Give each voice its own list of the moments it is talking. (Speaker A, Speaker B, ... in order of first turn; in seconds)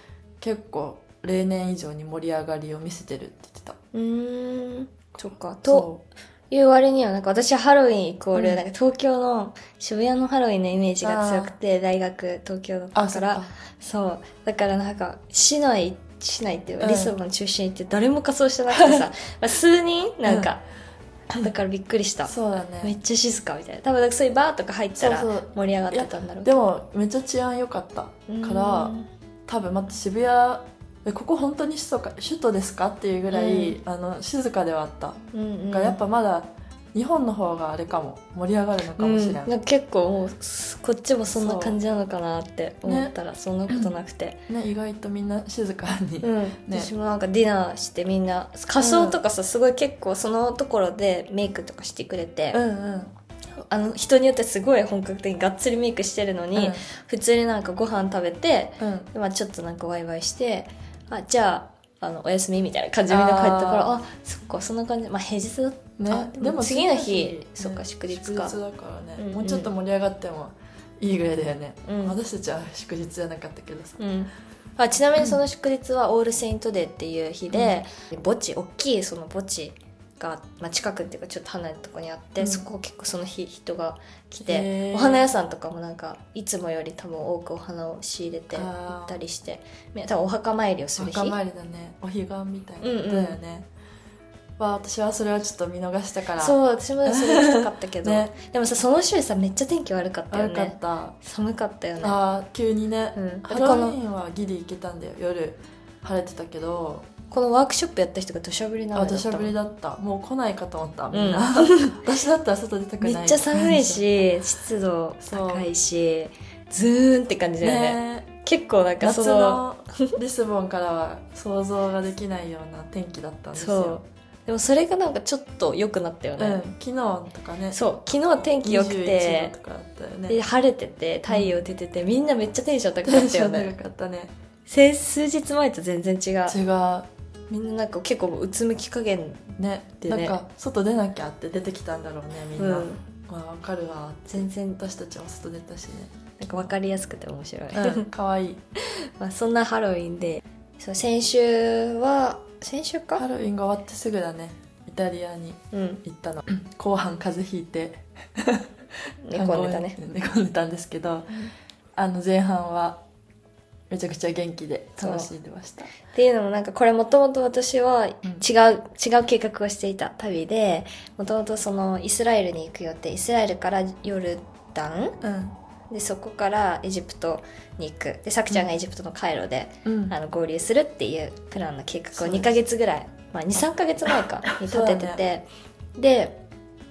Speaker A: 0.4-3.8, 5.7-6.0, 8.3-8.6, 11.0-11.5, 12.9-13.5, 16.8-17.1, 18.7-19.0, 22.3-22.9, 24.9-28.9, 29.5-35.2, 35.7-39.5, 41.3-41.8, 42.9-43.1, 43.7-43.9, 44.5-46.9, 48.8-49.2, 52.5-53.1, 56.5-56.8, 58.8-59.1, 63.1-63.9, 66.0-74.0, 77.5-77.8, 82.4-82.6, 84.4-85.3, 88.5-89.2, 91.0-93.7, 94.6-98.3, 100.3-101.2, 102.0-107.1, 108.9-114.0, 115.2-115.7, 117.6-118.3, 119.0-124.0, 126.4-127.8, 128.5-130.4, 131.3-131.6, 133.0-134.3, 136.5-137.1, 139.6-146.7, 147.7-148.6, 153.2-158.7, 159.3-161.4, 161.9-163.0, 163.9-165.9, 175.2-175.5, 179.8-180.1, 182.1-182.6, 184.6-185.2
Speaker B: 3.9-5.9, 6.5-20.6, 21.3-26.6, 28.3-29.1, 33.3-33.8, 35.3-36.0, 39.0-44.4, 46.2-52.6, 53.6-68.6, 69.2-69.7, 71.8-72.2, 74.0-91.4, 92.8-93.4, 96.4-102.2, 103.2-104.0, 107.3-109.5, 111.1-112.0, 113.0-120.2, 123.5-126.6, 127.7-129.5, 130.3-133.7, 134.7-136.6, 137.5-139.5, 140.1-140.4, 142.6-143.0, 144.3-144.8, 146.4-148.1, 148.8-153.2, 155.7-156.0, 159.2-160.0, 165.0-165.3, 166.0-175.2, 175.9-185.4, 186.0-186.4